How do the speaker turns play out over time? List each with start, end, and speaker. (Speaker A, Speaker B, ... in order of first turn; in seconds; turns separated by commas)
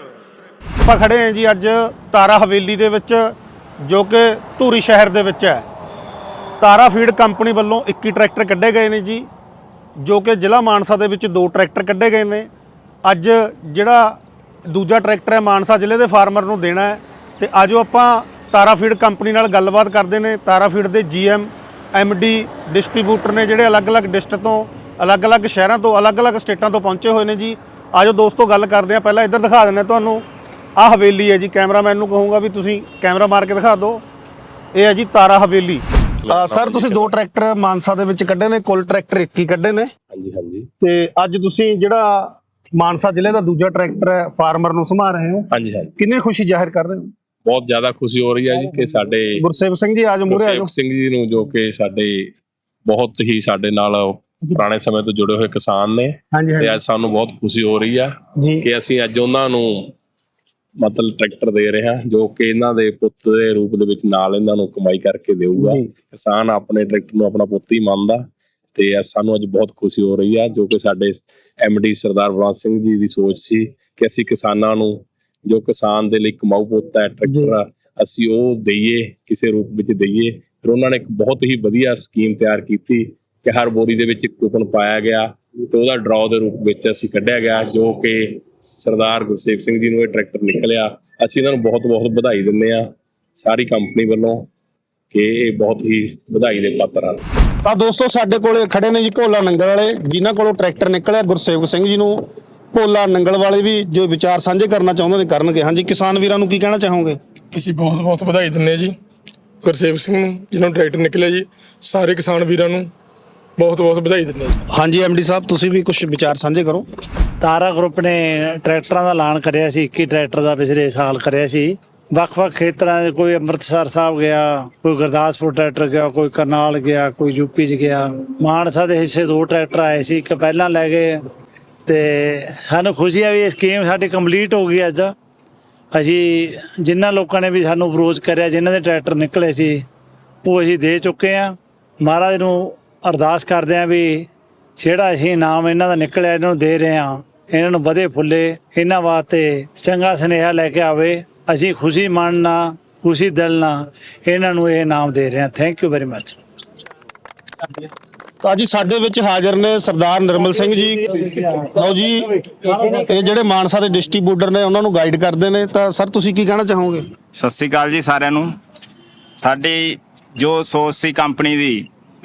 Speaker A: 0.8-5.6, Speaker A: 6.6-9.3, Speaker A: 10.0-12.5, Speaker A: 13.0-30.2, Speaker A: 30.8-34.0, Speaker A: 34.7-39.9, Speaker B: 36.2-37.1, Speaker B: 40.1-40.7, Speaker A: 40.8-47.1, Speaker B: 45.5-45.9, Speaker B: 47.4-49.4, Speaker A: 49.4-50.7, Speaker B: 50.3-52.3, Speaker B: 52.9-59.9, Speaker A: 56.3-56.8, Speaker A: 58.4-58.6, Speaker B: 60.8-92.9, Speaker A: 65.6-65.9, Speaker B: 93.4-94.5, Speaker B: 95.1-97.2, Speaker A: 97.6-102.2, Speaker A: 102.7-107.2, Speaker C: 107.5-108.9, Speaker C: 109.6-112.9, Speaker C: 113.6-114.5, Speaker A: 114.7-116.8, Speaker D: 117.4-131.2, Speaker D: 131.9-135.1, Speaker D: 135.9-139.8, Speaker D: 140.4-156.4, Speaker A: 158.4-161.1, Speaker D: 160.7-161.5, Speaker A: 161.6-167.1, Speaker D: 162.4-163.0, Speaker E: 167.3-168.5, Speaker E: 169.4-171.9